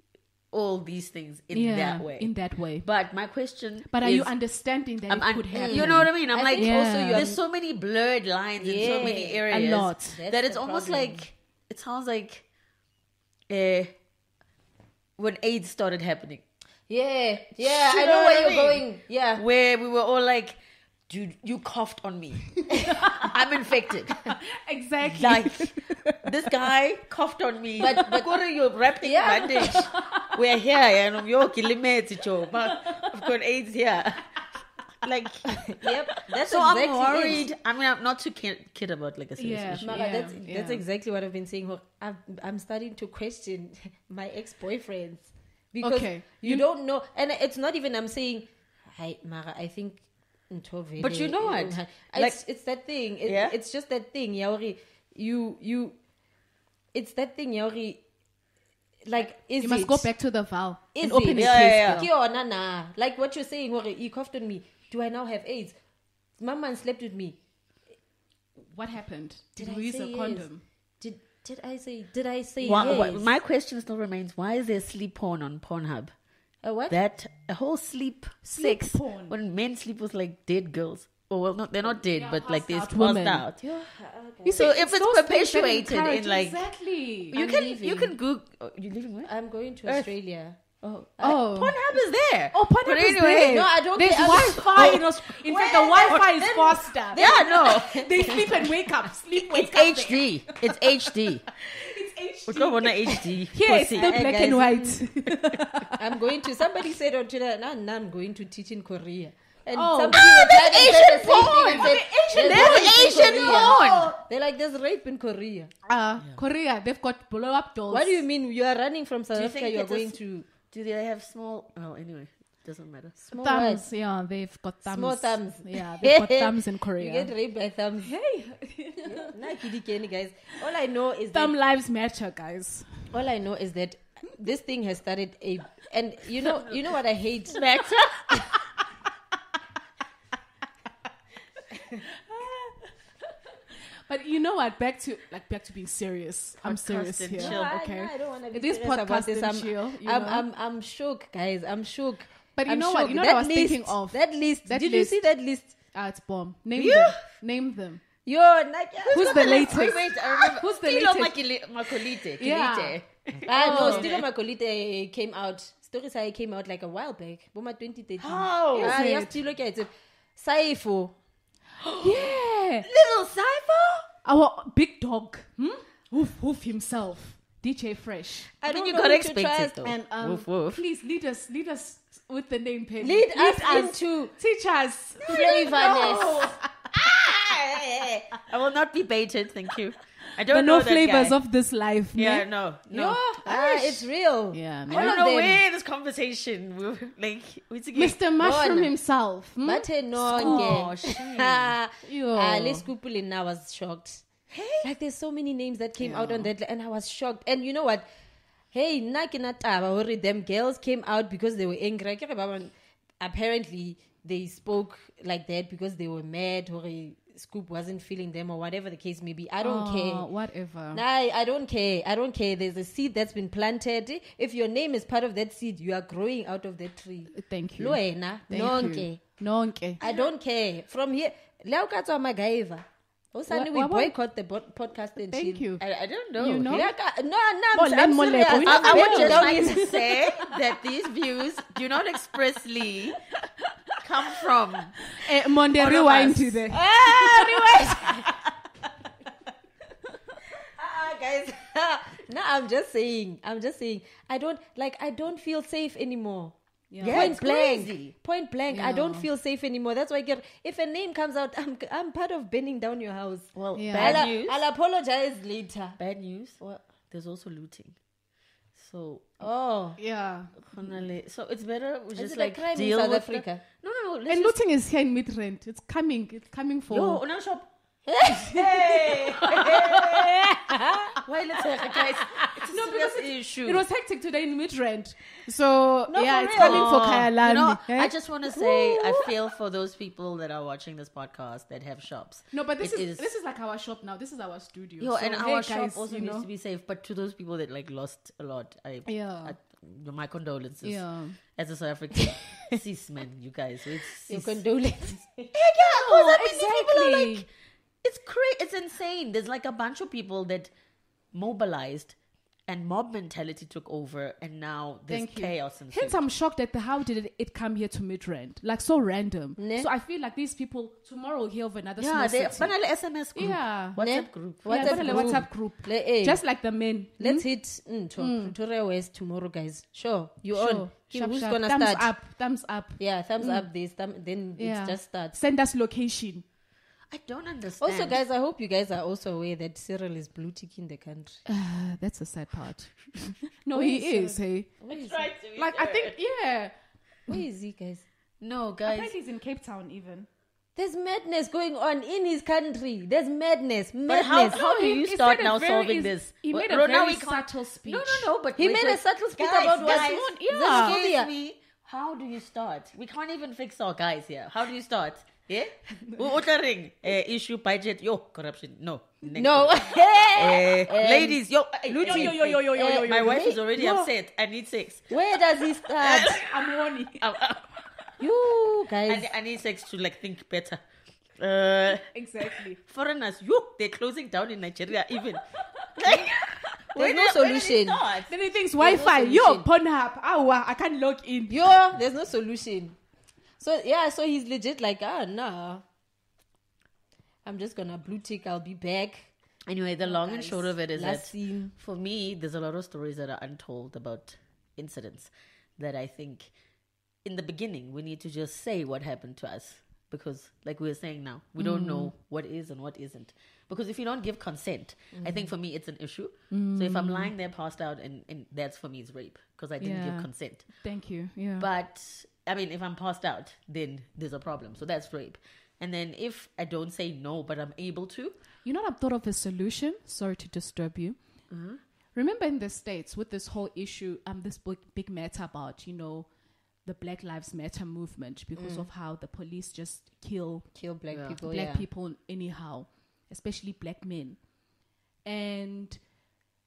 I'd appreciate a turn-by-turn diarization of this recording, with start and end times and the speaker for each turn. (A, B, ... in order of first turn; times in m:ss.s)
0:00.5-0:04.3 A
0:01.5-0:02.9 B
0:03.9-0:07.3 B
0:05.1-0:12.4 A
0:05.5-0:07.4 C
0:08.6-0:11.2 C
0:08.8-0:10.2 B
0:13.5-0:13.9 A
0:15.2-0:16.4 A
0:16.9-0:19.4 C
0:17.6-0:18.8 A
0:19.4-0:24.3 A
0:23.0-0:23.3 B
0:24.3-0:26.2 B
0:25.0-0:34.3 A
0:27.8-0:28.3 C
0:29.0-0:29.9 C
0:32.8-0:33.0 B
0:35.0-0:35.6 A
0:35.7-0:37.5 C
0:36.3-0:40.0 A
0:39.4-0:40.8 B
0:39.8-0:56.0 C
0:45.8-0:46.6 B
0:51.0-0:52.4 A
0:53.2-0:53.6 A
0:56.9-0:58.0 C
0:59.0-1:00.1 C
0:59.6-1:02.1 B
1:00.9-1:05.8 C
1:01.3-1:02.0 A
1:06.4-1:07.4 C
1:08.6-1:10.6 B
1:09.6-1:10.5 C
1:11.0-1:13.3 C
1:12.6-1:16.1 A
1:12.6-1:13.0 B
1:16.6-1:17.0 C
1:16.9-1:23.6 A
1:18.4-1:19.3 B
1:21.9-1:23.4 B
1:23.6-1:24.7 C
1:24.4-1:27.4 B
1:24.5-1:26.7 A
1:27.3-1:29.3 A
1:27.3-1:28.2 C
1:29.2-1:30.6 C
1:29.8-1:30.1 A
1:30.8-1:35.0 A
1:31.2-1:31.8 B
1:32.5-1:40.7 B
1:33.4-1:38.5 C
1:35.9-1:36.5 A
1:37.1-1:38.4 A
1:39.4-1:41.6 A
1:41.7-1:46.0 B
1:42.5-1:44.5 A
1:43.9-1:45.1 C
1:46.0-1:55.7 C
1:49.7-1:54.1 B
1:50.1-1:54.1 A
1:55.9-1:58.2 B
1:57.9-2:00.5 C
1:59.3-2:00.2 A
2:00.7-2:03.2 A
2:03.2-2:03.8 C
2:03.3-2:07.3 B
2:04.8-2:08.1 C
2:08.0-2:09.3 B
2:09.0-2:11.5 C
2:11.3-2:13.0 B
2:13.1-2:17.6 C
2:17.5-2:18.4 A
2:24.1-2:30.4 B
2:26.6-2:27.7 A
2:27.4-2:35.8 C
2:32.6-2:35.2 B
2:35.9-2:38.0 B
2:36.8-2:37.2 A
2:38.2-2:39.9 C
2:39.0-2:44.2 A
2:39.1-2:41.3 B
2:42.4-2:44.1 B
2:43.4-2:51.1 C
2:48.2-2:49.0 A
2:48.8-2:49.4 B
2:51.8-2:54.0 A
2:52.0-2:52.8 B
2:54.2-2:58.5 B
2:58.6-2:59.9 C
2:58.6-3:00.8 A
2:59.8-3:06.5 B
3:03.0-3:04.3 C
3:05.2-3:11.4 A
3:05.3-3:06.5 C
3:10.5-3:12.4 B
3:12.1-3:14.0 A
3:12.9-3:15.6 C
3:14.5-3:15.2 B
3:14.9-3:18.2 A
3:17.9-3:20.8 B
3:18.4-3:18.9 C
3:19.6-3:24.2 C
3:20.2-3:21.7 A
3:22.0-3:22.9 B
3:24.5-3:24.9 A
3:24.8-3:28.0 C
3:26.1-3:26.4 A
3:28.7-3:40.3 C
3:39.6-3:41.0 B
3:40.9-3:49.2 C
3:47.3-3:50.0 B
3:50.0-3:55.6 C
3:53.5-3:54.1 B
3:55.3-3:55.8 B
3:55.8-3:56.8 A
3:56.4-3:56.9 B
3:56.6-3:59.9 C
3:57.7-4:00.1 B
3:58.5-4:03.2 A
4:04.0-4:05.1 A
4:05.1-4:08.1 B
4:05.7-4:08.3 A
4:06.8-4:08.2 C
4:10.8-4:16.5 C
4:16.9-4:17.3 B
4:17.0-4:18.1 A
4:17.0-4:26.0 C
4:18.7-4:19.2 B
4:23.5-4:24.6 A
4:23.7-4:24.2 B
4:26.0-4:28.0 A
4:28.7-4:29.4 A
4:29.4-4:30.0 C
4:30.0-4:30.5 B
4:30.6-4:34.6 A
4:32.1-4:33.6 C
4:34.3-4:37.2 B
4:36.9-4:37.7 A
4:38.1-4:41.2 C
4:38.4-4:40.4 A
4:41.2-4:43.8 A
4:42.2-4:42.6 C
4:42.7-4:48.1 B
4:46.1-4:47.0 C
4:46.5-4:53.3 A
4:48.6-4:49.3 C
4:52.5-4:56.4 B
4:55.0-5:04.6 A
4:59.0-4:59.5 B
5:00.8-5:01.4 B
5:04.2-5:05.6 C
5:05.5-5:07.5 A
5:05.8-5:07.4 B
5:08.0-5:10.7 A
5:11.3-5:12.1 A
5:12.7-5:16.2 A
5:15.1-5:22.7 B
5:19.6-5:19.9 C
5:22.0-5:25.4 A
5:23.3-5:24.0 B
5:24.0-5:26.4 C
5:24.6-5:27.4 B
5:27.2-5:32.1 C
5:28.2-5:28.5 B
5:30.5-5:33.7 B
5:33.0-5:35.3 C
5:34.6-5:36.4 B
5:37.1-5:38.2 A
5:37.8-5:41.4 C
5:41.4-5:44.7 B
5:43.7-5:45.3 C
5:44.9-5:46.2 A
5:45.6-5:46.7 B
5:47.3-5:48.0 C
5:48.4-5:49.1 A
5:48.8-5:50.3 B
5:50.8-5:54.6 C
5:54.0-6:15.1 A
5:54.5-5:58.3 B
5:58.6-6:01.3 C
5:59.8-6:00.9 B
6:09.3-6:11.4 C
6:11.9-6:14.0 B
6:11.9-6:14.0 C
6:15.1-6:16.4 C
6:16.0-6:16.5 A
6:16.4-6:17.2 B
6:17.2-6:17.7 A
6:18.2-6:19.3 C
6:19.1-6:20.8 A
6:21.4-6:25.4 A
6:22.1-6:22.8 B
6:26.0-6:28.3 A
6:27.0-6:28.0 C
6:28.3-6:31.7 B
6:28.8-6:29.7 C
6:31.5-6:33.0 C
6:33.6-6:35.8 C
6:37.4-6:39.3 C
6:39.7-6:46.5 A
6:40.0-6:41.7 C
6:47.2-7:00.7 A
6:51.6-6:52.1 B
6:55.1-6:55.5 C
6:56.5-6:57.3 B
6:59.8-7:01.7 B
7:01.6-7:08.3 A
7:08.6-7:11.2 B
7:11.5-7:11.8 C
7:12.1-7:16.3 B
7:16.8-7:20.7 B
7:18.5-7:18.9 C
7:20.7-7:21.8 C
7:21.1-7:21.4 A
7:21.4-7:24.4 B
7:25.2-7:26.0 B